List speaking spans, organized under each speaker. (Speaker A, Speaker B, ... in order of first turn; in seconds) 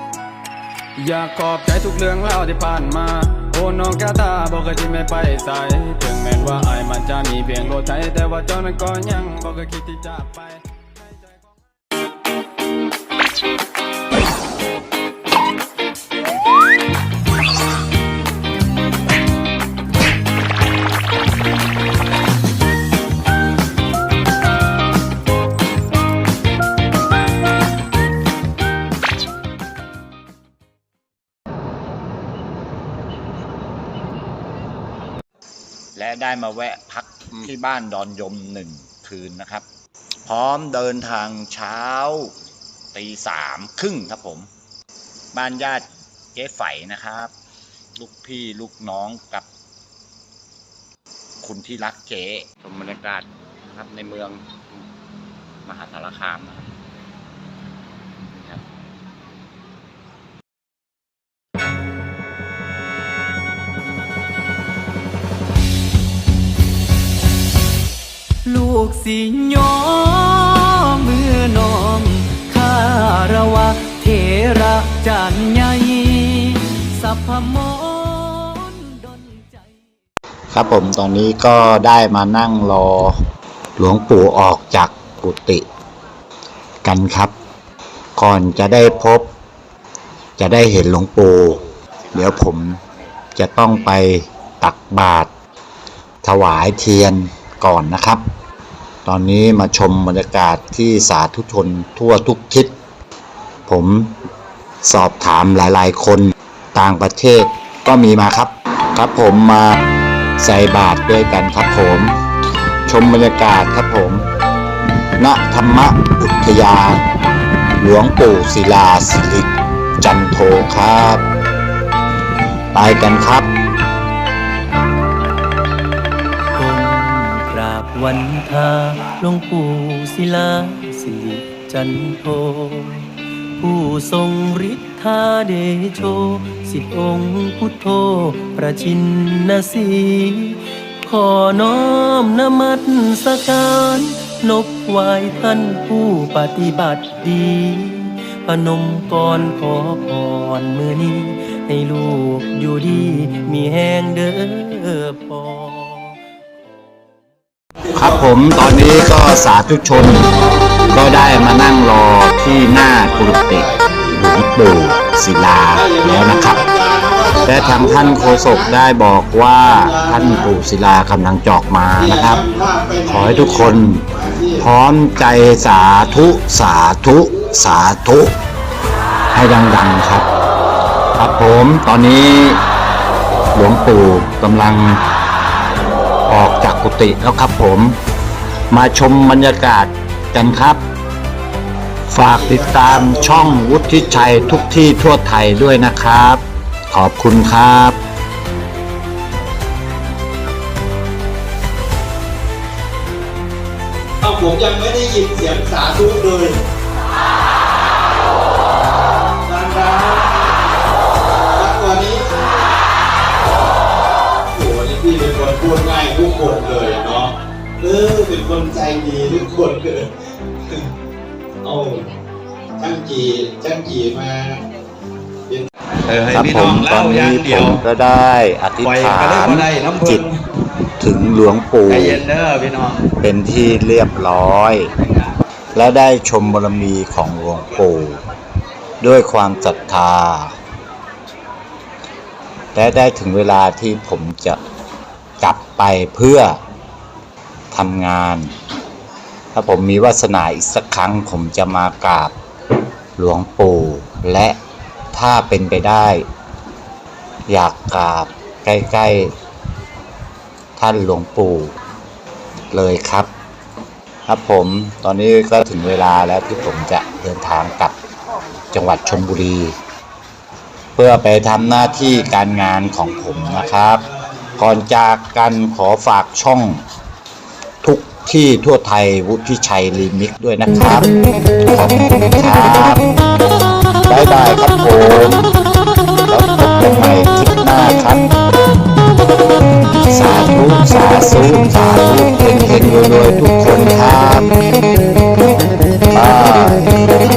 Speaker A: 1.0-10.6
Speaker B: 36.0-39.6, 40.3-42.4, 42.9-44.5, 45.3-47.3, 48.0-49.5, 51.4-54.8, 55.6-56.7, 58.3-58.6, 80.5-83.2, 83.8-85.7, 86.8-87.3, 88.2-89.3, 90.4-92.8, 93.3-95.3, 96.2-98.2, 99.0-102.7, 103.7-104.2, 104.8-109.8, 110.4-112.2, 112.9-114.2, 115.2-117.0, 117.8-121.2, 122.7-123.5, 157.9-160.3, 160.9-166.7, 167.5-172.4, 173.1-174.1, 174.6-178.3, 179.3-180.3, 181.2-182.6, 183.5-185.0, 186.3-188.0, 188.7-190.8, 192.1-198.0, 226.3-230.3, 231.0-232.3, 233.2-234.9, 235.7-238.2, 239.0-240.5, 242.7-244.6, 245.4-246.6, 247.7-248.5, 249.5-252.3, 253.2-254.6, 255.1-256.3, 257.5-259.3, 260.8-261.8, 262.7-263.3, 264.3-267.9, 268.7-269.8, 271.0-274.0, 274.6-276.8, 277.8-281.1, 281.7-283.1, 284.1-285.6, 286.3-288.2, 290.1-294.5, 296.1-297.0
Speaker C: 77.0-77.8, 126.6-156.2
Speaker D: 157.8-158.7, 160.3-161.3, 162.5-165.0, 165.7-168.8, 169.7-170.5, 172.0-174.7, 192.3-194.7, 204.2-206.6, 209.4-210.3, 211.5-212.3, 214.5-220.1, 221.6-222.1, 222.8-224.6, 271.5-274.6
Speaker E: 226.1-227.8, 228.8-230.3, 231.9-233.0